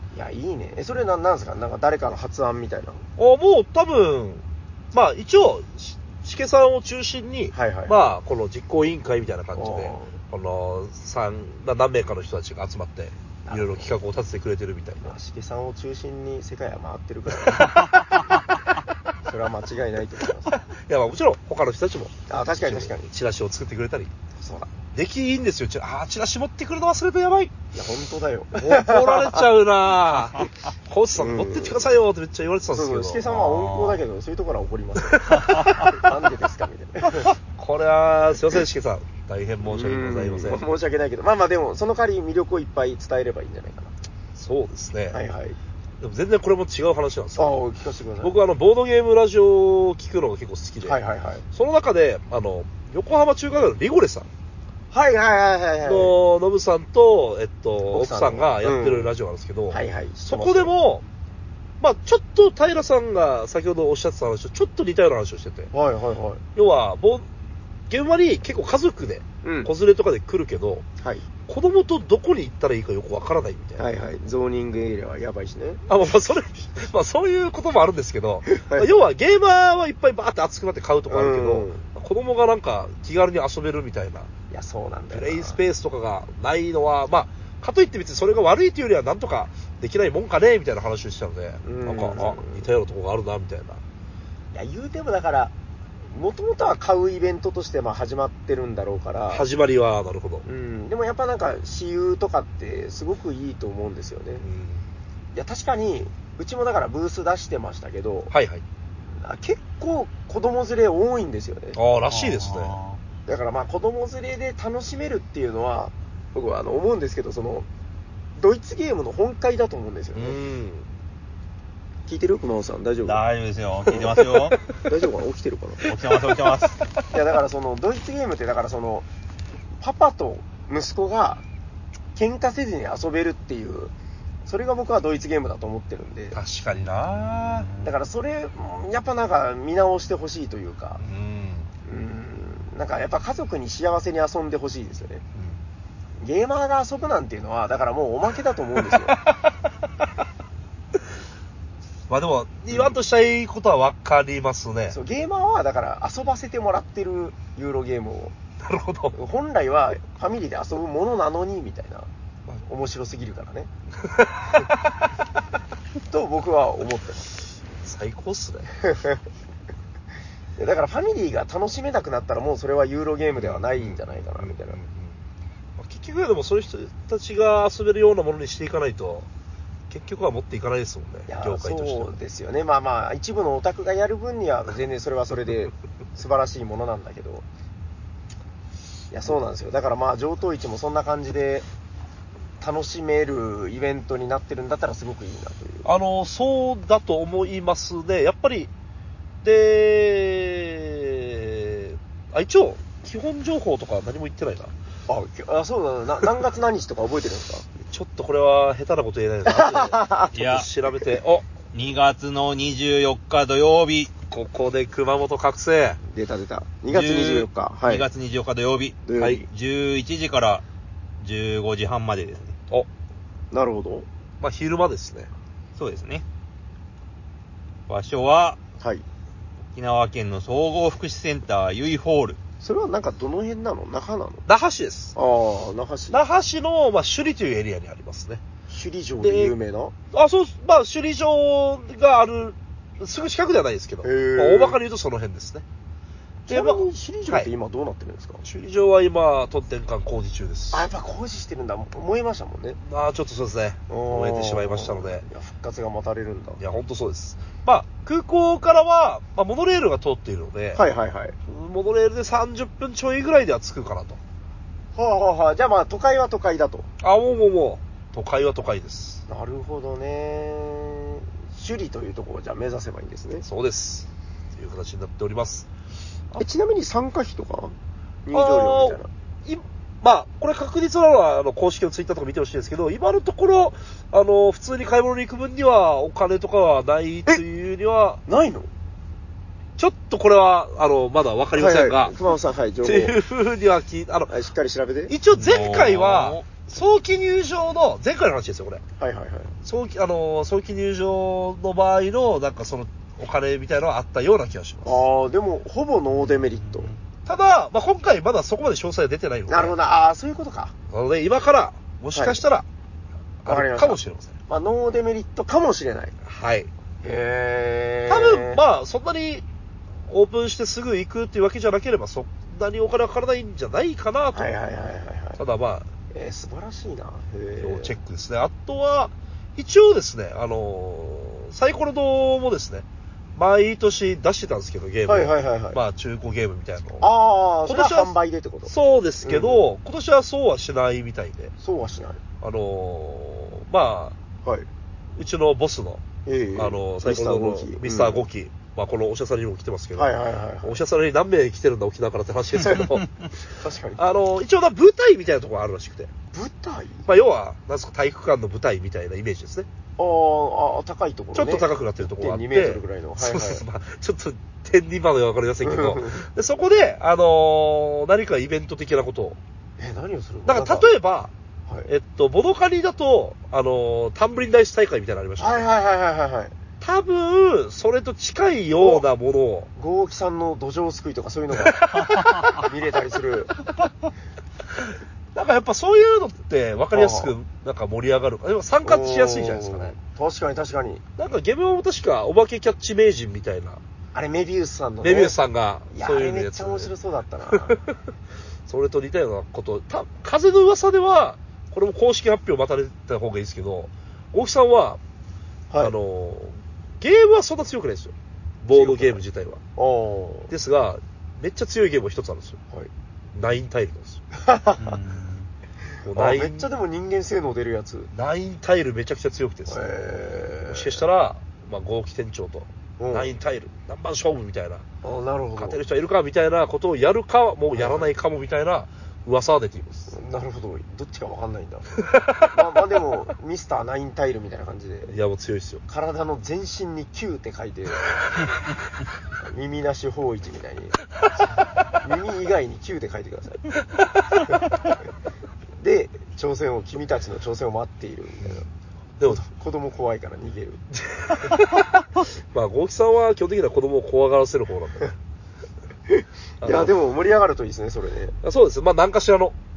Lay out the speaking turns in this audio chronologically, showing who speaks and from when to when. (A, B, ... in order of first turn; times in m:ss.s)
0:00.1-0:03.0 A
0:03.2-0:15.2 B
0:07.5-0:08.0 A
0:09.6-0:10.1 A
0:13.4-0:14.0 A
0:15.0-0:18.0 A
0:17.7-0:18.2 C
0:19.2-0:20.6 A
0:20.7-0:24.1 B
0:22.3-0:23.1 A
0:24.4-0:24.7 A
0:25.0-0:27.5 B
0:27.7-0:29.4 A
0:28.5-0:33.2 B
0:31.2-0:31.8 A
0:32.7-0:37.4 A
0:33.3-0:34.0 C
0:35.1-0:36.0 B
0:35.4-0:35.8 C
0:37.2-0:40.6 B
0:39.6-0:44.0 A
0:44.4-0:45.2 B
0:45.1-0:45.6 A
0:46.0-0:47.6 B
0:47.4-0:48.4 A
0:48.2-0:51.0 B
0:50.8-0:51.4 A
0:51.5-0:54.3 B
0:54.9-0:56.2 A
0:55.8-1:01.0 B
0:57.9-0:59.1 A
0:59.7-1:00.7 A
1:01.8-1:05.7 B
1:05.7-1:06.4 A
1:06.6-1:07.3 B
1:07.9-1:10.8 B
1:09.4-1:09.7 A
1:11.5-1:13.8 B
1:13.8-1:15.8 A
1:15.9-1:24.3 B
1:18.5-1:19.0 A
1:21.1-1:21.8 A
1:24.5-1:25.6 A
1:25.1-1:33.8 B
1:31.6-1:32.7 A
1:34.5-1:35.5 A
1:36.1-1:39.4 A
1:39.3-1:40.4 B
1:40.4-1:44.4 A
1:44.4-1:44.8 B
1:45.4-1:48.3 A
1:48.3-1:48.6 B
1:49.1-1:51.8 A
1:51.8-1:52.8 B
1:52.1-1:53.0 C
1:53.3-1:57.7 A
1:58.4-2:00.4 A
2:00.2-2:00.9 B
2:02.1-2:03.2 A
2:03.0-2:04.6 C
2:03.9-2:04.3 B
2:04.8-2:05.9 A
2:05.8-2:06.8 C
2:07.1-2:09.1 A
2:09.8-2:11.4 A
2:12.2-2:13.9 A
2:14.5-2:16.4 A
2:16.3-2:17.7 B
2:17.0-2:18.0 C
2:17.8-2:21.0 A
2:21.0-2:21.7 B
2:21.8-2:25.2 A
2:26.2-2:29.2 A
2:28.9-2:29.3 B
2:32.1-2:35.0 B
2:34.9-2:38.3 A
2:38.6-2:39.2 B
2:39.1-2:42.1 A
2:42.6-2:43.7 A
2:44.0-2:44.8 B
2:46.1-2:47.3 A
2:47.8-2:48.7 B
2:48.8-2:49.2 A
2:50.6-2:54.8 A
2:53.4-2:55.2 B
2:55.8-2:59.3 B
2:59.9-3:02.2 B
3:01.3-3:07.4 A
3:09.1-3:11.7 A
3:12.6-3:15.9 A
3:15.8-3:18.7 B
3:19.4-3:24.7 B
3:25.1-3:27.7 A
3:27.8-3:31.5 B
3:29.5-3:30.3 A
3:30.3-3:30.7 C
3:31.7-3:34.1 C
3:34.3-3:36.0 B
3:36.1-3:38.1 A
3:36.9-3:40.6 C
3:39.1-3:39.5 A
3:39.2-3:39.4 B
3:41.2-3:42.6 C
3:43.5-3:44.1 A
3:44.4-3:45.3 B
3:45.8-3:46.2 C
3:47.9-3:48.6 C
3:49.8-3:52.4 C
3:52.6-3:54.4 A
3:54.5-3:55.2 B
3:55.2-3:56.2 A
3:56.1-3:58.4 B
3:58.7-3:59.9 A
3:59.2-3:59.6 B
4:00.1-4:05.6 B
4:04.0-4:04.8 A
4:06.5-4:08.4 A
4:06.5-4:07.5 B
4:08.4-4:10.9 B
4:10.7-4:12.8 A
4:12.8-4:15.2 B
4:13.9-4:16.6 A
4:16.6-4:20.8 B
4:20.8-4:21.4 A
4:21.5-4:24.2 B
4:25.0-4:26.9 A
4:27.0-4:29.2 B
4:29.3-4:33.4 A
4:33.4-4:35.7 B
4:36.4-4:39.1 A
4:38.3-4:48.2 B
4:48.3-4:48.7 A
4:49.8-4:52.2 B
4:51.6-4:53.2 A
4:52.8-4:54.3 B
4:54.3-4:55.1 A
4:55.1-4:58.8 B
4:55.3-4:56.6 C
4:59.0-4:59.6 A
4:59.6-5:05.0 B
5:04.8-5:06.9 A
5:06.2-5:07.0 C
5:07.2-5:09.8 B
5:09.5-5:10.7 A
5:10.9-5:12.7 B
5:12.1-5:12.4 A
5:13.4-5:14.4 B
5:13.5-5:16.2 A
5:16.2-5:16.7 B
5:17.0-5:18.6 A
5:18.1-5:19.4 B
5:20.1-5:24.5 B
5:24.3-5:25.4 A
5:25.4-5:25.9 B
5:26.1-5:28.0 A
5:27.6-5:32.8 B
5:33.4-5:37.1 B
5:35.1-5:35.8 A
5:37.0-5:39.6 A
5:37.7-5:38.2 B
5:38.7-5:41.5 B
5:41.6-5:42.2 A
5:42.4-5:44.2 B
5:45.2-5:46.0 B
5:46.2-5:48.2 A
5:46.6-5:53.1 B
5:50.0-5:50.8 A
5:53.5-5:54.0 A
5:54.0-5:56.1 B
5:56.3-5:57.1 A
5:57.1-5:59.7 B
6:00.0-6:03.6 A
6:01.4-6:09.4 B
6:05.6-6:06.3 A
6:09.8-6:10.9 A
6:10.5-6:11.3 B
6:11.9-6:15.6 B
6:15.4-6:16.6 A
6:16.8-6:19.7 B
6:18.8-6:19.0 A
6:19.8-6:21.8 A
6:21.6-6:22.7 B
6:22.5-6:23.6 A
6:24.8-6:30.0 B
6:26.9-6:27.3 A
6:28.8-6:31.0 A
6:31.2-6:33.8 B
6:34.1-6:35.4 A
6:35.0-6:36.9 B
6:35.9-6:37.8 A
6:37.6-6:38.0 B
6:38.7-6:45.0 B
6:45.8-6:49.6 B
6:48.7-6:49.2 A
6:49.8-6:50.5 A
6:50.5-6:52.6 B
6:53.3-6:54.2 B
6:54.3-6:55.0 A
6:54.8-6:55.5 C
6:56.0-6:56.7 B
6:56.0-6:58.1 A
6:58.1-6:59.9 B
6:59.7-7:01.0 A
7:00.7-7:04.8 B
7:03.0-7:03.3 A
7:05.0-7:05.8 A
7:05.6-7:10.1 B
7:07.7-7:08.1 A
7:10.1-7:15.1 A
7:12.1-7:12.5 B
7:15.1-7:15.8 B
7:15.9-7:18.2 A
7:19.4-7:21.0 A
7:22.0-7:23.6 A
7:25.8-7:28.7 A
7:29.2-7:30.8 A
7:30.9-7:32.0 B
7:32.5-7:35.1 B
7:36.1-7:38.4 A
7:36.6-7:36.9 B
7:38.4-7:39.6 B